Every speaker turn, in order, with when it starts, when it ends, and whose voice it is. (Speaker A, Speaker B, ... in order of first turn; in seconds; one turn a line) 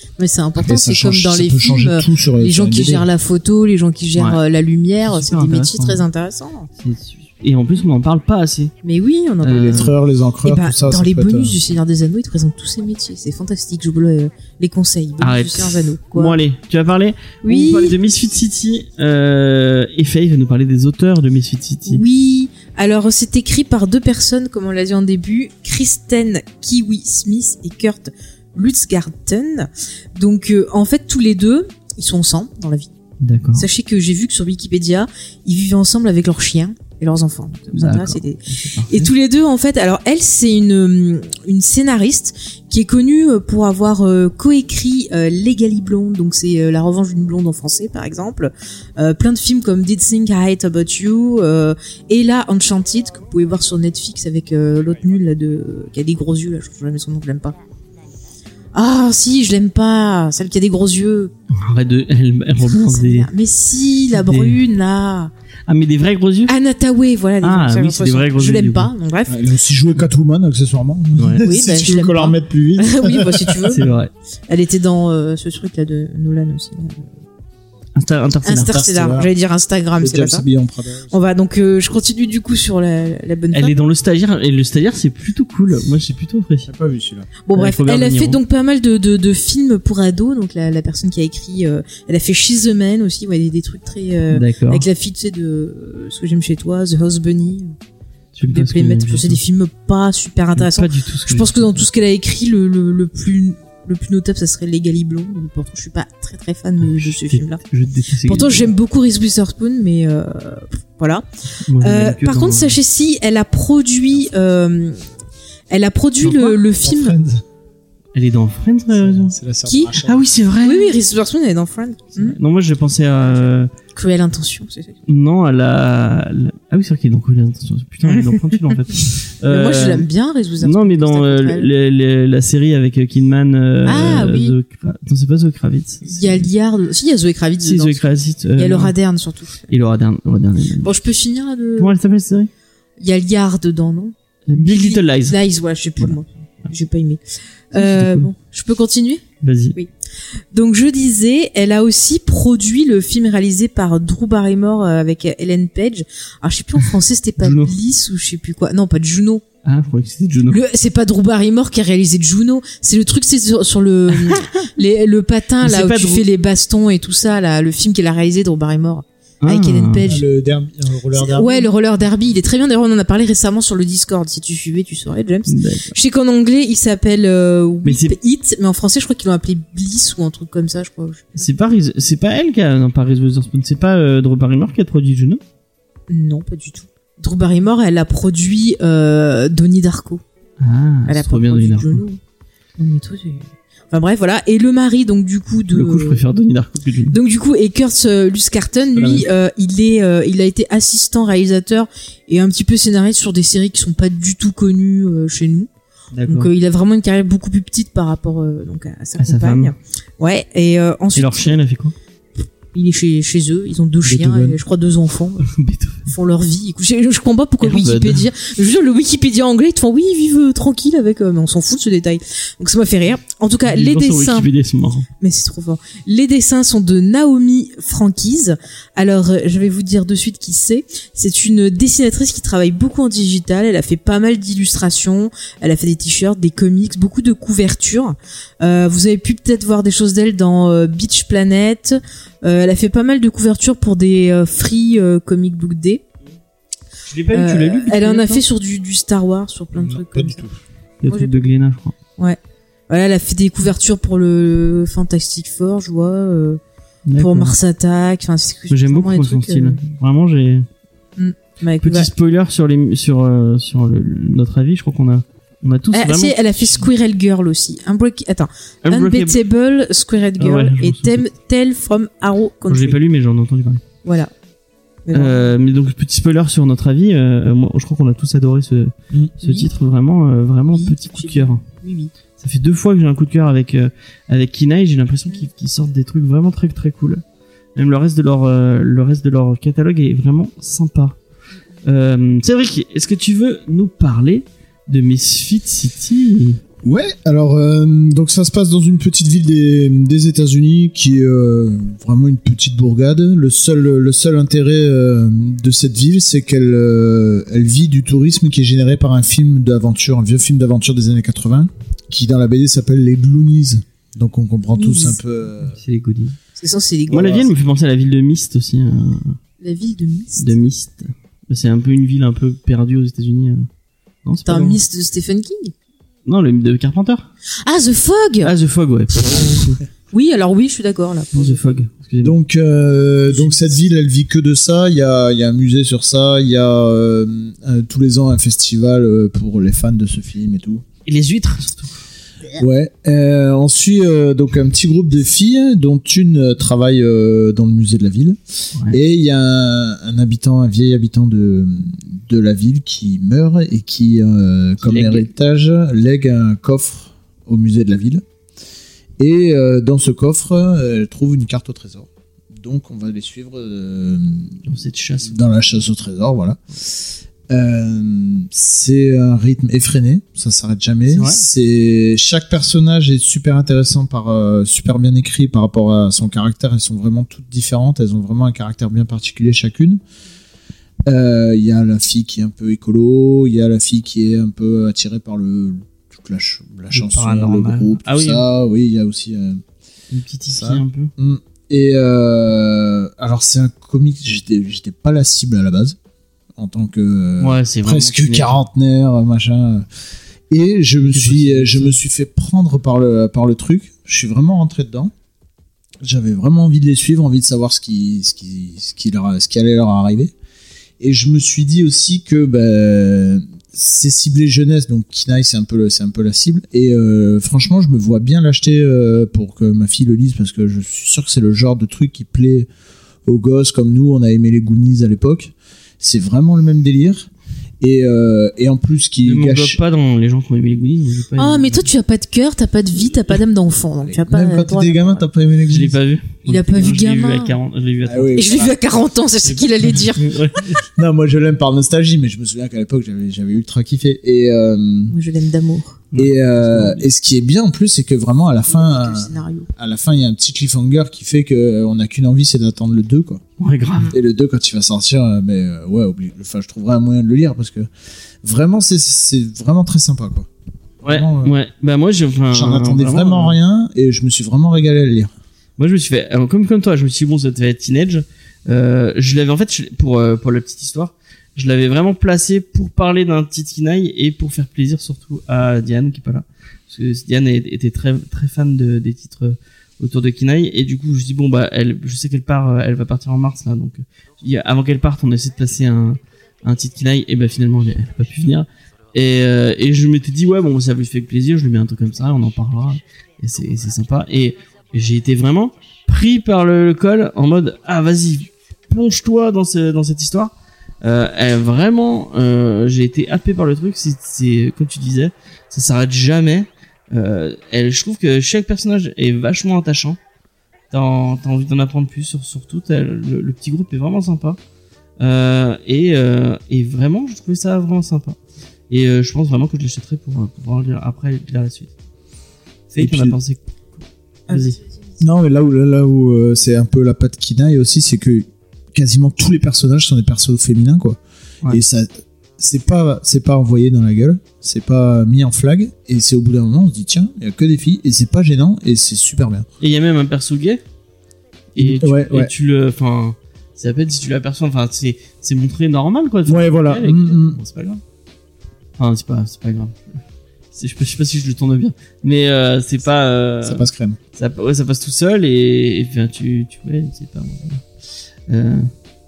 Speaker A: 0.2-6.7
Speaker B: 0.6-3.1
Speaker C: 5.0-6.0
Speaker C: 6.8-8.7
Speaker A: 8.8-16.4
Speaker C: 9.4-9.9
Speaker B: 9.6-11.6
Speaker C: 15.2-22.0
Speaker A: 17.4-18.0
Speaker A: 21.9-32.9
Speaker C: 33.2-33.6
Speaker A: 33.5-57.5
Speaker C: 37.7-39.1
Speaker A: 58.7-61.3
Speaker C: 61.5-63.3
Speaker A: 62.6-65.3
Speaker C: 64.1-64.6
Speaker C: 65.7-66.5
Speaker A: 66.5-69.4
Speaker C: 67.4-68.9
Speaker B: 69.3-73.8
Speaker A: 71.4-73.8
Speaker C: 73.7-74.1
Speaker A: 74.5-77.1
Speaker C: 78.0-78.8
Speaker A: 78.4-80.4
Speaker B: 78.6-79.3
Speaker B: 80.0-81.1
Speaker A: 81.1-83.8
Speaker C: 83.5-86.7
Speaker B: 86.7-87.3
Speaker A: 87.4-97.8
Speaker C: 87.5-88.4
Speaker C: 94.3-94.8
Speaker C: 98.3-99.4
Speaker A: 98.5-107.6
Speaker C: 100.5-101.8
Speaker C: 106.9-108.7
Speaker A: 108.2-115.0
Speaker C: 111.7-112.8
Speaker A: 115.7-117.2
Speaker B: 116.2-117.4
Speaker C: 118.1-119.3
Speaker B: 118.9-120.3
Speaker A: 119.7-120.0
Speaker C: 120.0-121.0
Speaker A: 120.6-122.4
Speaker C: 122.2-123.7
Speaker A: 123.9-125.0
Speaker C: 125.1-130.1
Speaker A: 128.1-128.3
Speaker A: 129.5-131.7
Speaker C: 130.6-136.5
Speaker A: 133.8-134.6
Speaker A: 136.1-139.7
Speaker C: 137.6-138.9
Speaker C: 139.7-141.0
Speaker A: 140.8-141.9
Speaker C: 141.8-142.5
Speaker A: 143.0-149.2
Speaker C: 144.5-145.4
Speaker C: 147.7-148.3
Speaker C: 149.4-149.8
Speaker A: 150.5-159.4
Speaker C: 157.4-157.7
Speaker C: 159.6-160.6
Speaker A: 160.5-170.2
Speaker C: 164.2-164.5
Speaker C: 165.6-166.2
Speaker C: 169.4-170.1
Speaker B: 170.1-171.7
Speaker A: 171.1-181.3
Speaker C: 175.5-175.9
Speaker C: 177.8-178.1
Speaker C: 181.3-185.4
Speaker A: 186.1-190.2
Speaker C: 190.6-192.0
Speaker A: 191.1-192.2
Speaker A: 192.8-196.2
Speaker C: 195.7-197.2
Speaker A: 197.1-205.7
Speaker C: 198.9-199.3
Speaker C: 206.1-206.5
Speaker A: 206.2-211.6
Speaker C: 209.2-209.7
Speaker C: 211.1-211.9
Speaker A: 212.7-215.5
Speaker B: 214.0-214.6
Speaker C: 215.4-216.1
Speaker A: 216.1-224.5
Speaker C: 217.6-218.2
Speaker C: 223.7-225.1
Speaker A: 225.2-246.0
Speaker C: 247.1-248.4
Speaker A: 247.3-250.4
Speaker B: 249.8-250.6
Speaker C: 251.0-251.9
Speaker A: 251.1-251.4
Speaker A: 252.2-256.6
Speaker C: 257.1-257.6
Speaker A: 257.1-259.8
Speaker C: 258.7-260.7
Speaker A: 261.2-262.1
Speaker C: 261.8-266.9
Speaker A: 265.9-273.0
Speaker C: 268.8-269.4
Speaker C: 270.4-271.2
Speaker C: 272.7-273.8
Speaker A: 274.0-274.3
Speaker A: 275.1-275.5
Speaker C: 275.1-281.6
Speaker A: 279.4-279.7
Speaker A: 280.7-282.1
Speaker C: 282.4-287.2
Speaker C: 287.8-291.2
Speaker C: 291.8-296.6
Speaker B: 296.8-315.8
Speaker A: 314.8-315.2
Speaker C: 315.8-316.4
Speaker A: 316.6-317.5
Speaker C: 317.1-319.4
Speaker A: 319.6-320.5
Speaker C: 320.4-323.7
Speaker C: 324.2-324.8
Speaker A: 324.4-325.7
Speaker C: 326.2-327.3
Speaker A: 327.6-328.5
Speaker C: 328.4-329.8
Speaker A: 330.1-331.8
Speaker C: 331.3-332.4
Speaker B: 332.2-340.8
Speaker C: 341.1-342.0
Speaker B: 342.6-358.2
Speaker C: 354.8-355.3
Speaker B: 359.2-364.6
Speaker C: 364.7-365.4
Speaker B: 365.2-380.0
Speaker C: 371.1-371.4
Speaker B: 381.1-389.6
Speaker C: 386.9-388.5
Speaker C: 390.1-391.1
Speaker B: 390.5-395.9
Speaker B: 396.6-399.9
Speaker C: 397.4-398.6
Speaker B: 400.5-405.1
Speaker C: 401.0-402.0
Speaker B: 406.0-410.3
Speaker B: 411.0-422.7
Speaker B: 423.2-427.3
Speaker B: 427.8-429.8
Speaker C: 429.2-431.9
Speaker A: 431.4-435.2
Speaker B: 434.0-436.0
Speaker C: 435.7-438.6
Speaker A: 436.4-437.6
Speaker B: 438.0-438.8
Speaker A: 438.3-440.3
Speaker C: 439.4-440.8
Speaker B: 440.9-445.1
Speaker A: 445.1-446.0
Speaker C: 446.1-447.1
Speaker B: 446.1-453.4
Speaker A: 448.7-449.7
Speaker C: 453.6-454.1
Speaker B: 454.1-457.9
Speaker B: 458.4-460.5
Speaker C: 461.0-463.6
Speaker B: 461.0-461.5
Speaker B: 462.5-465.3
Speaker C: 465.8-510.2
Speaker C: 510.9-514.6
Speaker C: 515.2-518.4
Speaker C: 518.9-521.9
Speaker C: 522.9-523.6
Speaker B: 523.0-523.4
Speaker A: 524.5-524.8
Speaker C: 524.5-524.8
Speaker B: 525.2-539.7
Speaker C: 539.8-540.8
Speaker C: 541.7-548.0
Speaker B: 541.8-542.5
Speaker B: 546.5-547.6
Speaker C: 549.0-550.0
Speaker C: 550.7-557.8
Speaker B: 553.6-554.2
Speaker C: 558.5-558.9